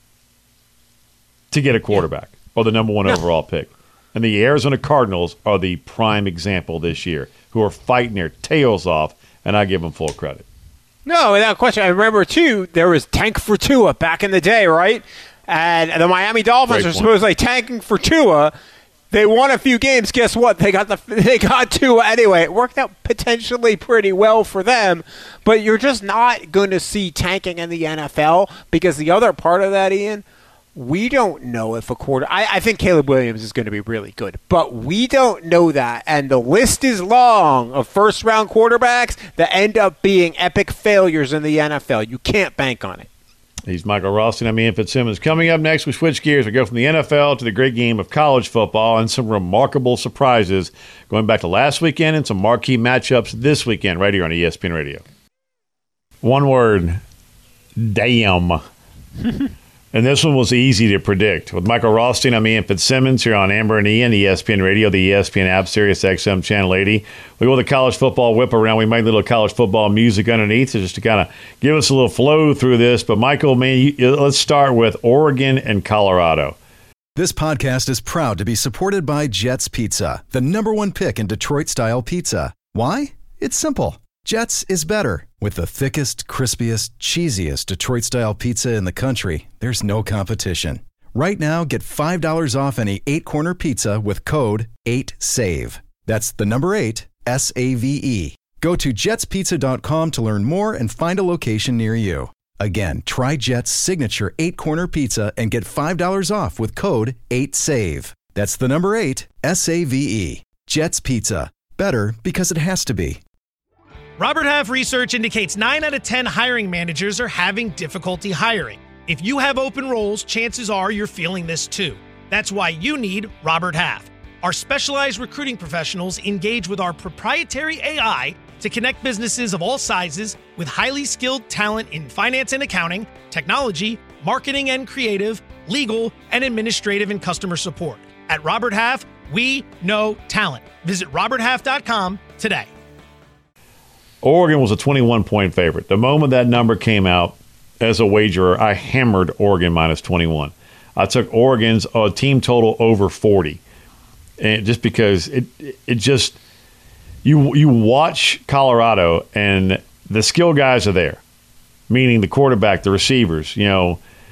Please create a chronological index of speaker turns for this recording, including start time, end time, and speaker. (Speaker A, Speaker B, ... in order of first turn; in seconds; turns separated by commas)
Speaker A: 1.5-10.4, Speaker B: 11.1-18.5, Speaker A: 16.7-17.1, Speaker B: 19.1-30.2, Speaker B: 30.7-43.1, Speaker A: 43.6-55.0, Speaker A: 56.2-57.0, Speaker A: 57.8-58.6, Speaker A: 59.9-76.5, Speaker C: 77.2-113.2, Speaker D: 114.2-142.7, Speaker A: 144.2-153.6, Speaker A: 154.4-156.4, Speaker A: 157.2-161.2, Speaker A: 161.9-164.0